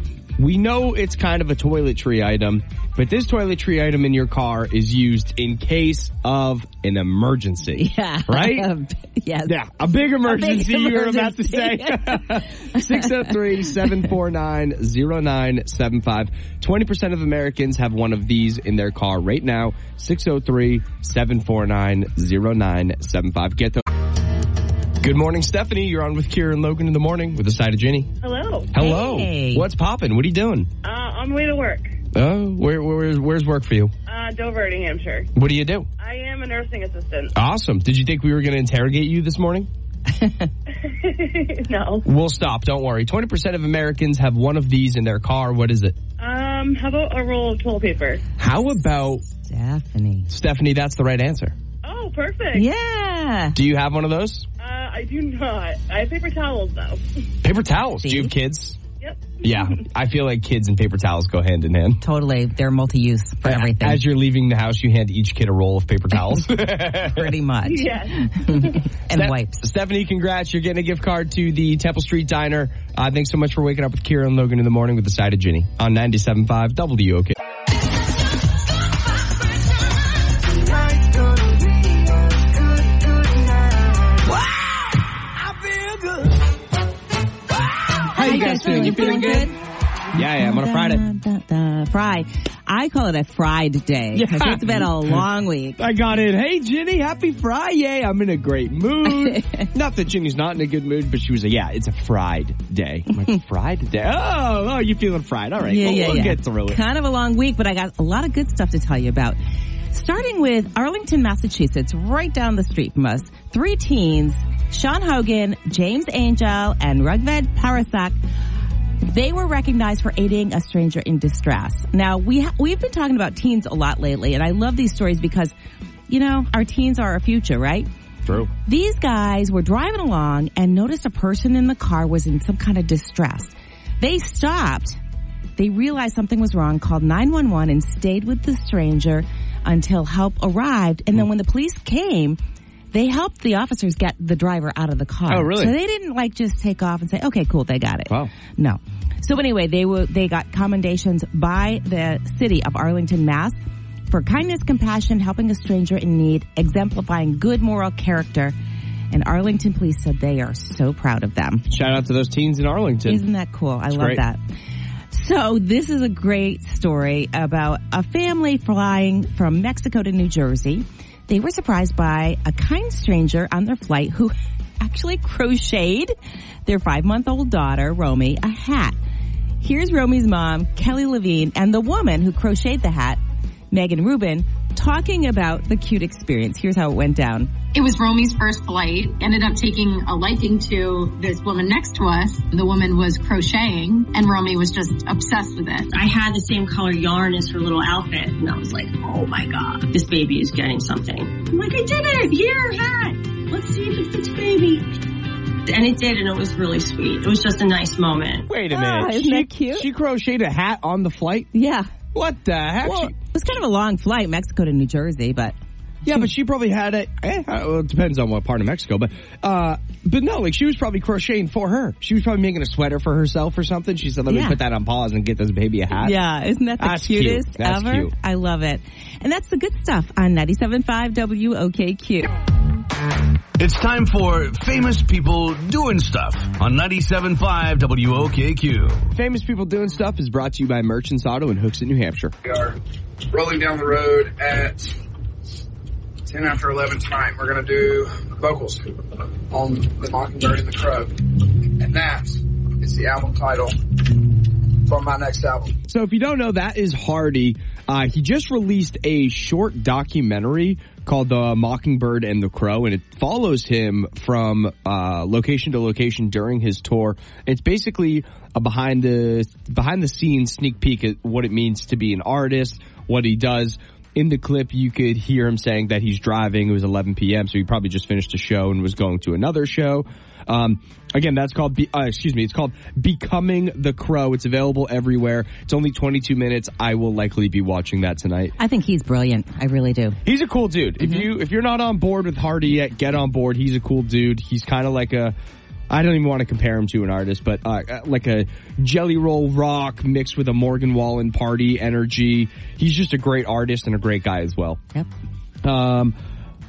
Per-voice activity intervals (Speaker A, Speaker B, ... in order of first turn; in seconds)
Speaker A: 0.4-8.7, 9.4-23.8, 25.0-28.1, 28.7-30.7, 32.1-33.9, 35.3-35.9, 37.3-39.7, 42.0-46.0, 48.4-49.2, 50.3-51.5, 53.5-54.5, 57.4-58.8, 59.4-62.0, 63.4-67.3, 69.1-77.3, 85.7-86.0, 88.1-89.5, 90.1-91.0, 94.1-95.2, 95.8-106.8, 145.3-145.7, 161.7-163.2, 163.9-164.2, 208.5-211.5, 212.1-213.1, 216.0-226.1, 226.8-228.1, 239.1-242.3, 255.9-288.5, 290.2-295.3, 295.9-304.8, 305.6-306.1
Speaker B: 7.8-9.6, 10.1-13.9, 28.8-29.6, 40.1-40.5, 48.7-50.3, 52.5-53.6, 58.0-58.3, 62.0-64.0, 67.0-69.6, 88.1-89.5, 90.2-95.8, 99.0-99.7, 105.6-109.4, 109.9-118.1, 119.0-125.5, 126.1-127.9, 128.7-135.0, 135.6-142.4, 142.9-153.6, 154.1-158.5, 159.1-161.6, 163.1-164.4, 165.1-176.1, 176.6-179.0, 179.6-183.2, 183.7-187.5, 208.7-209.8, 211.5-211.9, 212.8-215.6, 224.3-224.6, 226.0-232.3, 288.6-290.2, 291.0-291.3
Speaker C: 28.2-28.7, 30.8-31.9, 34.1-35.3, 36.0-37.3, 41.0-42.0, 46.2-48.2, 51.8-52.6, 54.6-57.0, 59.0-59.4, 67.7-68.2
Speaker D: 187.7-195.9
Speaker E: 195.9-204.8, 205.7-208.5
Speaker F: 233.6-239.0
Speaker G: 242.4-242.8, 243.3-244.9, 246.2-253.7, 254.8-255.7